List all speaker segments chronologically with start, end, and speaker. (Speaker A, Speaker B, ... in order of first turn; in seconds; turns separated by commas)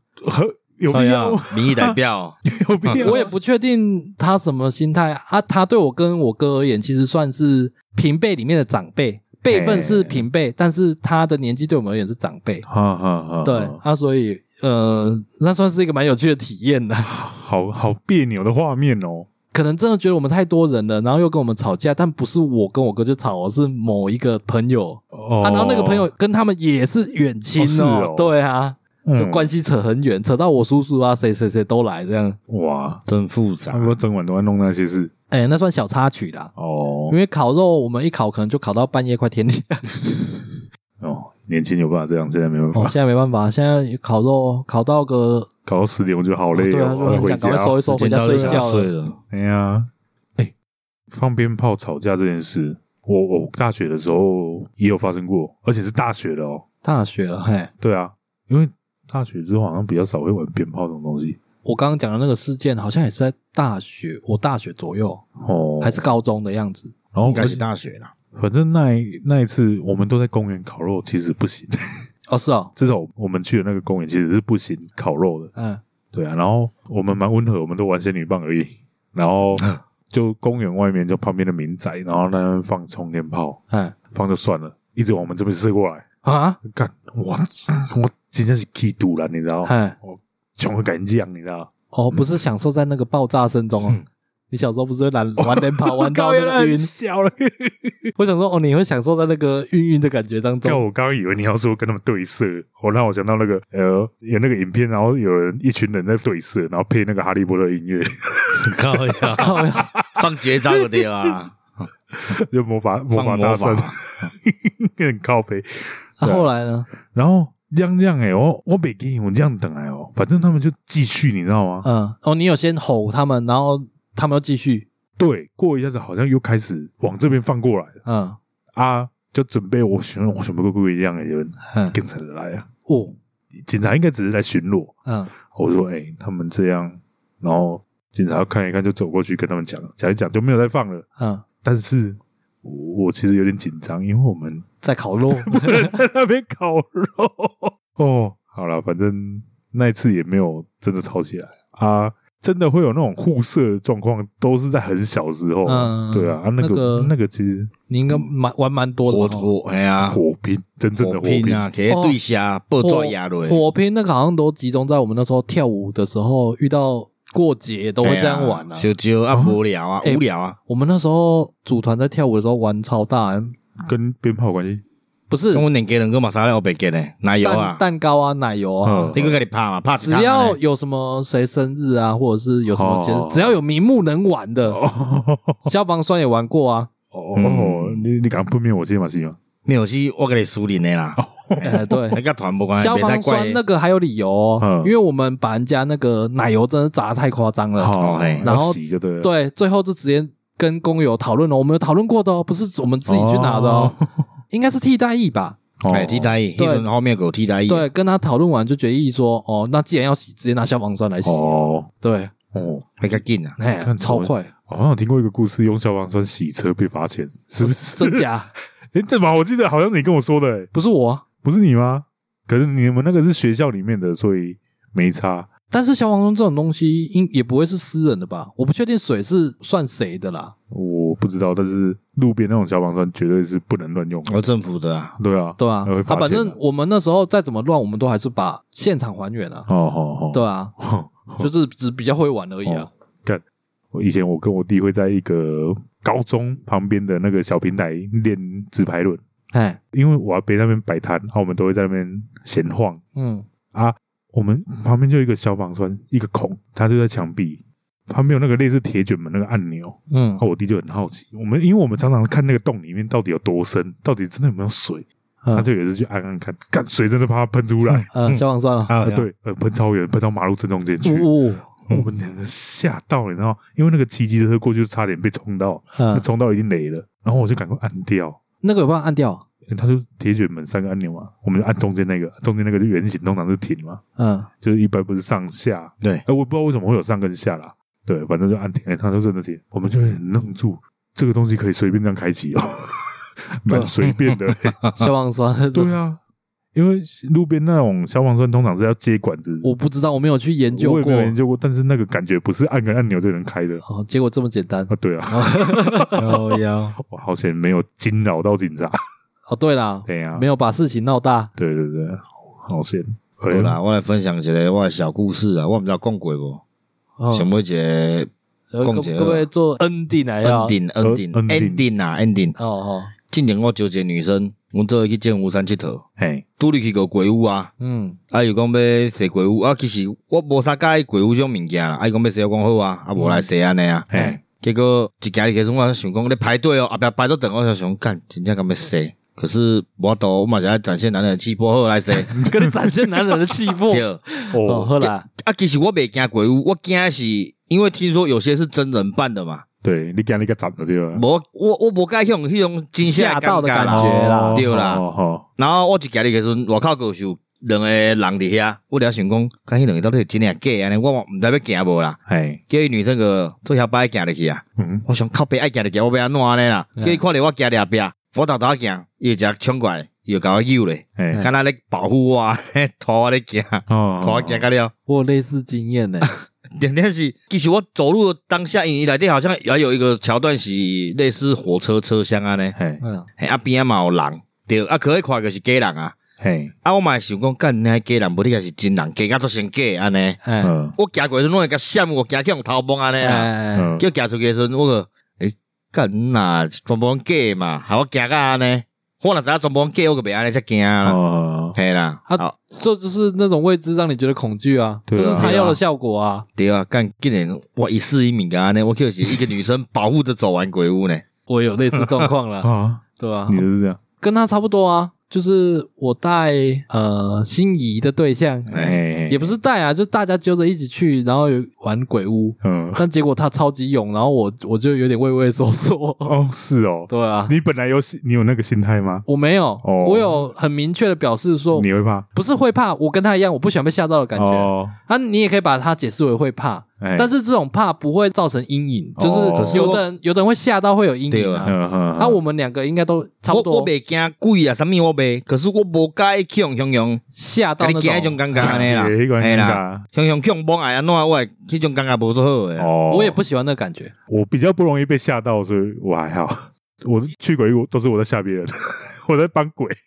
Speaker A: 0.2-3.3, Speaker B: 0.9-3.1, Speaker C: 3.0-12.6, Speaker A: 9.5-10.2, Speaker A: 12.7-13.8, Speaker C: 13.4-17.1, Speaker A: 17.0-19.3, Speaker C: 19.5-32.4, Speaker A: 25.1-26.1, Speaker A: 27.6-28.3, Speaker A: 29.1-29.5, Speaker A: 32.5-33.0, Speaker B: 33.1-34.0, Speaker A: 33.7-35.1, Speaker C: 35.3-36.5, Speaker A: 36.6-37.2, Speaker C: 37.1-39.9, Speaker A: 41.0-43.0, Speaker C: 42.7-45.5, Speaker A: 45.7-48.7, Speaker C: 46.5-48.9, Speaker B: 47.9-49.2, Speaker A: 49.3-50.5, Speaker A: 51.1-56.6, Speaker C: 56.8-57.7, Speaker A: 57.8-61.4, Speaker C: 61.6-65.2, Speaker A: 65.4-66.1, Speaker C: 65.8-67.0, Speaker A: 67.1-67.6, Speaker B: 67.2-68.1, Speaker A: 68.3-71.8, Speaker C: 72.3-72.7, Speaker A: 72.8-75.5, Speaker C: 75.5-75.8, Speaker A: 76.1-83.6, Speaker C: 83.7-84.0, Speaker A: 84.1-86.0, Speaker C: 86.2-86.6, Speaker A: 86.6-92.2, Speaker C: 89.6-90.0, Speaker C: 91.9-96.9, Speaker A: 95.4-98.0, Speaker C: 98.2-100.8, Speaker A: 100.6-110.2, Speaker B: 108.6-109.5, Speaker C: 109.3-109.9, Speaker B: 110.1-111.6, Speaker A: 112.1-116.5, Speaker B: 113.1-114.1, Speaker C: 116.2-116.9, Speaker A: 117.1-121.9, Speaker C: 121.8-124.9, Speaker A: 125.2-128.0, Speaker C: 128.1-128.4, Speaker A: 128.8-132.7, Speaker C: 131.7-132.0, Speaker C: 132.9-133.2, Speaker A: 133.6-134.9, Speaker C: 135.1-135.3, Speaker A: 135.5-141.1, Speaker C: 141.2-141.4, Speaker A: 141.6-144.7, Speaker C: 144.8-145.9, Speaker A: 145.3-157.7, Speaker C: 155.6-157.1, Speaker C: 157.9-159.5, Speaker B: 159.1-160.2, Speaker A: 160.0-161.6, Speaker B: 161.0-163.7, Speaker C: 161.9-162.2, Speaker C: 162.8-168.9, Speaker B: 168.0-170.6, Speaker A: 169.3-169.6, Speaker C: 170.0-173.6, Speaker A: 173.8-174.8, Speaker C: 175.3-175.7, Speaker B: 175.5-177.8, Speaker C: 177.4-179.2, Speaker A: 178.8-179.4, Speaker B: 179.1-180.6, Speaker C: 180.0-184.8, Speaker A: 182.7-183.6, Speaker A: 184.7-185.6, Speaker C: 185.7-186.9, Speaker A: 187.1-189.4, Speaker B: 187.4-188.1, Speaker B: 189.7-193.6, Speaker A: 191.2-192.2, Speaker C: 191.6-192.2, Speaker C: 192.7-204.0, Speaker A: 194.6-194.9, Speaker A: 197.8-199.3, Speaker B: 198.0-198.5, Speaker A: 203.1-204.2, Speaker C: 204.5-205.6, Speaker A: 205.8-206.3, Speaker B: 205.9-207.9, Speaker C: 206.6-206.9, Speaker C: 207.7-212.3, Speaker A: 211.2-211.9, Speaker A: 212.5-213.2, Speaker B: 213.0-213.6, Speaker C: 213.6-214.5, Speaker A: 213.8-218.2, Speaker C: 217.6-218.5, Speaker A: 218.9-220.7, Speaker C: 220.7-221.2, Speaker A: 221.4-225.5, Speaker C: 225.7-230.5, Speaker A: 230.7-234.4, Speaker B: 234.2-235.2, Speaker A: 235.2-236.6, Speaker C: 235.6-239.7, Speaker A: 239.7-241.5, Speaker C: 240.3-240.7, Speaker C: 241.4-242.9, Speaker A: 242.6-249.2, Speaker C: 249.5-249.8, Speaker A: 249.9-253.0, Speaker C: 253.1-253.5, Speaker A: 253.7-268.1, Speaker C: 260.1-260.4, Speaker C: 265.4-265.7, Speaker B: 267.9-269.3, Speaker C: 268.1-268.9, Speaker A: 269.0-278.4, Speaker C: 271.0-271.6, Speaker C: 275.9-276.2, Speaker C: 278.6-279.4, Speaker A: 279.7-284.0, Speaker C: 284.2-284.5, Speaker A: 284.6-294.8, Speaker B: 294.3-295.1, Speaker C: 295.0-295.9, Speaker A: 295.7-296.2, Speaker A: 296.8-299.7, Speaker C: 299.6-301.4, Speaker A: 300.7-303.8, Speaker C: 303.9-306.2, Speaker A: 304.9-306.4, Speaker B: 306.2-307.0, Speaker A: 307.0-309.0, Speaker C: 309.5-311.5, Speaker A: 310.1-310.5, Speaker A: 311.6-313.8, Speaker B: 313.5-316.6, Speaker C: 317.2-317.5, Speaker B: 317.3-318.3, Speaker C: 318.7-320.8, Speaker B: 318.8-319.5, Speaker B: 320.4-322.6, Speaker A: 321.0-321.9, Speaker C: 322.6-323.1, Speaker B: 323.3-326.0, Speaker A: 326.2-326.4, Speaker B: 326.6-327.7, Speaker C: 327.8-328.2, Speaker B: 328.3-342.3, Speaker C: 333.2-333.4, Speaker A: 334.1-334.4, Speaker C: 342.3-345.2, Speaker A: 342.3-342.7, Speaker B: 343.9-344.2, Speaker A: 344.5-344.9, Speaker B: 345.0-349.6, Speaker A: 349.8-351.2, Speaker B: 351.1-355.1, Speaker C: 353.0-354.6, Speaker A: 353.8-355.5, Speaker B: 355.6-374.9, Speaker A: 362.3-362.6, Speaker A: 364.8-365.1, Speaker C: 367.0-367.2, Speaker A: 371.2-371.5, Speaker A: 373.9-374.6, Speaker C: 375.1-376.4, Speaker B: 376.8-382.8, Speaker A: 382.8-383.0, Speaker C: 383.0-383.3, Speaker B: 383.4-386.1, Speaker A: 386.4-386.7, Speaker B: 386.8-390.4, Speaker C: 390.4-390.8, Speaker A: 390.6-391.0, Speaker B: 391.0-401.2, Speaker C: 393.2-394.0, Speaker A: 393.7-394.1, Speaker A: 401.0-401.8, Speaker B: 401.8-402.6, Speaker C: 402.3-406.5, Speaker A: 405.1-405.8, Speaker B: 405.2-405.5, Speaker B: 406.6-411.2, Speaker C: 411.5-413.7, Speaker A: 412.6-414.0, Speaker C: 414.2-426.4, Speaker B: 418.7-419.0, Speaker A: 418.7-419.6, Speaker A: 422.6-423.0, Speaker A: 426.2-429.2, Speaker C: 427.1-427.5, Speaker C: 429.3-443.9, Speaker A: 429.8-430.5, Speaker A: 431.7-432.2, Speaker A: 434.4-435.0, Speaker A: 437.0-437.3, Speaker A: 439.2-439.9, Speaker B: 439.6-440.0, Speaker B: 441.3-441.7, Speaker A: 441.6-442.4, Speaker B: 443.5-447.2, Speaker C: 447.3-448.9, Speaker B: 447.8-452.9, Speaker A: 448.5-450.1, Speaker A: 452.8-453.4, Speaker C: 453.1-454.1, Speaker A: 454.3-460.0